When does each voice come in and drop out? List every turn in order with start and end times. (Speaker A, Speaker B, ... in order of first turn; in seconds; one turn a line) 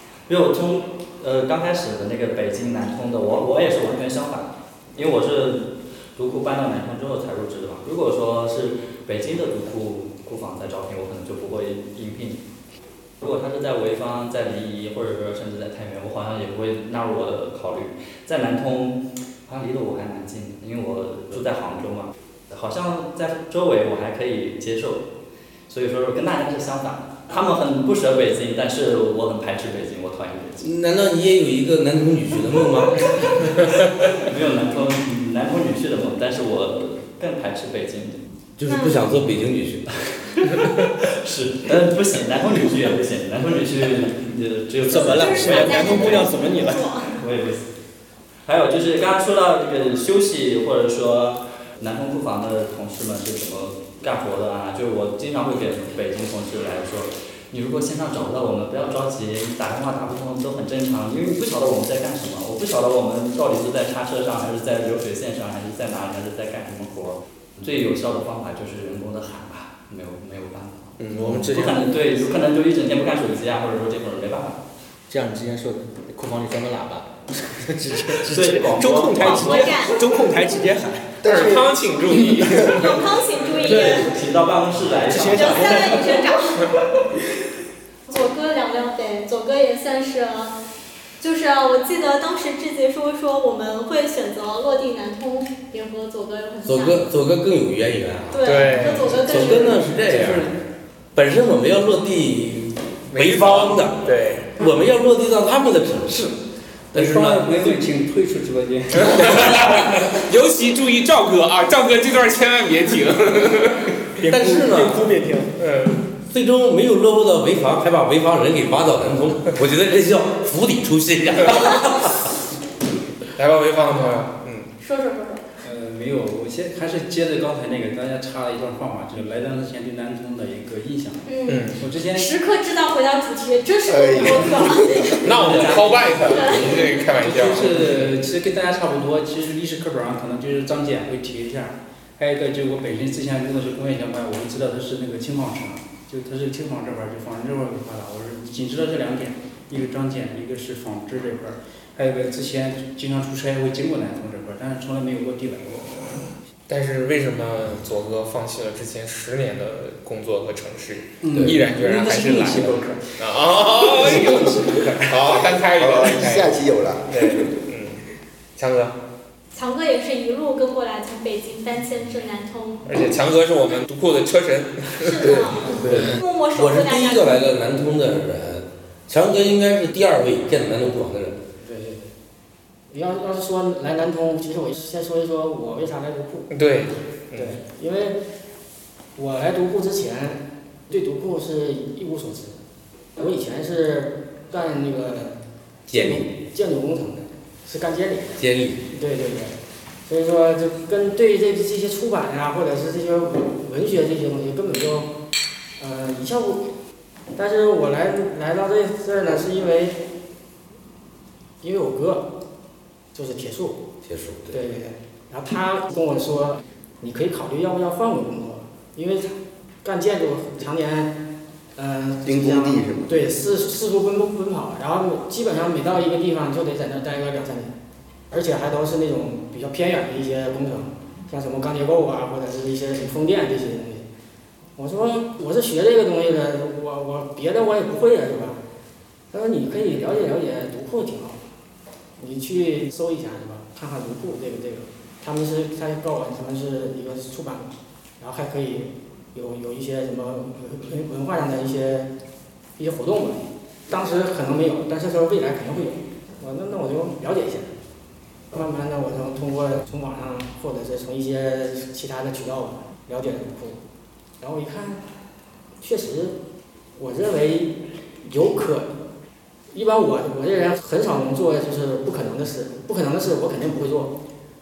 Speaker A: 0.3-12.4
Speaker A: 13.2-25.0
Speaker A: 25.7-30.6
Speaker B: 30.6-33.3
Speaker A: 33.4-33.6
Speaker A: 34.2-38.2
Speaker B: 38.6-39.9
Speaker C: 38.6-39.0
Speaker A: 40.3-46.3
Speaker D: 44.8-46.8
Speaker C: 44.9-47.1
Speaker A: 47.2-47.7
Speaker A: 48.5-74.6
Speaker D: 71.0-72.2
Speaker D: 75.1-81.2
Speaker A: 78.3-79.8
Speaker C: 79.1-80.0
Speaker E: 81.2-81.8
Speaker F: 81.2-83.0
Speaker C: 82.7-84.1
Speaker A: 83.6-86.1
Speaker D: 83.6-84.1
Speaker D: 84.9-86.2
Speaker C: 85.3-86.8
Speaker C: 88.1-90.5
Speaker C: 91.2-97.0
Speaker B: 96.6-100.5
Speaker C: 98.3-100.1
Speaker F: 98.4-99.1
Speaker F: 100.1-100.4
Speaker B: 101.1-106.3
Speaker F: 103.1-104.5
Speaker G: 106.9-109.5
Speaker F: 107.0-107.3
Speaker B: 107.0-107.4
Speaker F: 108.9-113.9
Speaker D: 114.2-115.5
Speaker B: 114.2-115.0
Speaker F: 115.6-116.0
Speaker B: 116.3-122.2
Speaker F: 123.3-124.7
Speaker C: 124.8-125.5
Speaker G: 125.6-132.3
Speaker C: 131.2-135.1
Speaker F: 131.5-131.8
Speaker E: 133.9-135.2
Speaker F: 135.2-138.0
Speaker G: 135.3-136.2
Speaker C: 136.3-136.7
Speaker G: 137.2-156.2
Speaker F: 156.7-166.6
Speaker G: 161.2-162.9
Speaker G: 163.9-164.9
Speaker E: 165.8-167.4
Speaker F: 167.1-168.0
Speaker F: 168.6-168.9
Speaker C: 169.5-172.8
Speaker F: 172.8-175.3
Speaker C: 175.0-177.4
Speaker E: 175.2-176.2
Speaker B: 175.9-181.4
Speaker H: 181.6-182.1
Speaker H: 182.9-186.5
Speaker F: 186.5-187.6
Speaker H: 187.3-188.2
Speaker H: 189.2-192.6
Speaker H: 193.2-195.4
Speaker B: 195.9-196.3
Speaker H: 196.0-205.1
Speaker B: 198.4-198.8
Speaker H: 205.8-206.6
Speaker H: 207.3-210.0
Speaker H: 211.6-212.3
Speaker H: 213.1-213.8
Speaker B: 214.0-214.6
Speaker H: 214.5-221.1
Speaker H: 221.8-227.7
Speaker E: 222.2-223.1
Speaker H: 228.3-234.1
Speaker H: 234.8-238.6
Speaker H: 239.3-241.4
Speaker H: 242.2-252.1
Speaker H: 252.8-257.7
Speaker H: 258.5-263.8
Speaker H: 264.4-265.0
Speaker H: 265.8-266.4
Speaker H: 266.9-268.9
Speaker H: 269.7-274.1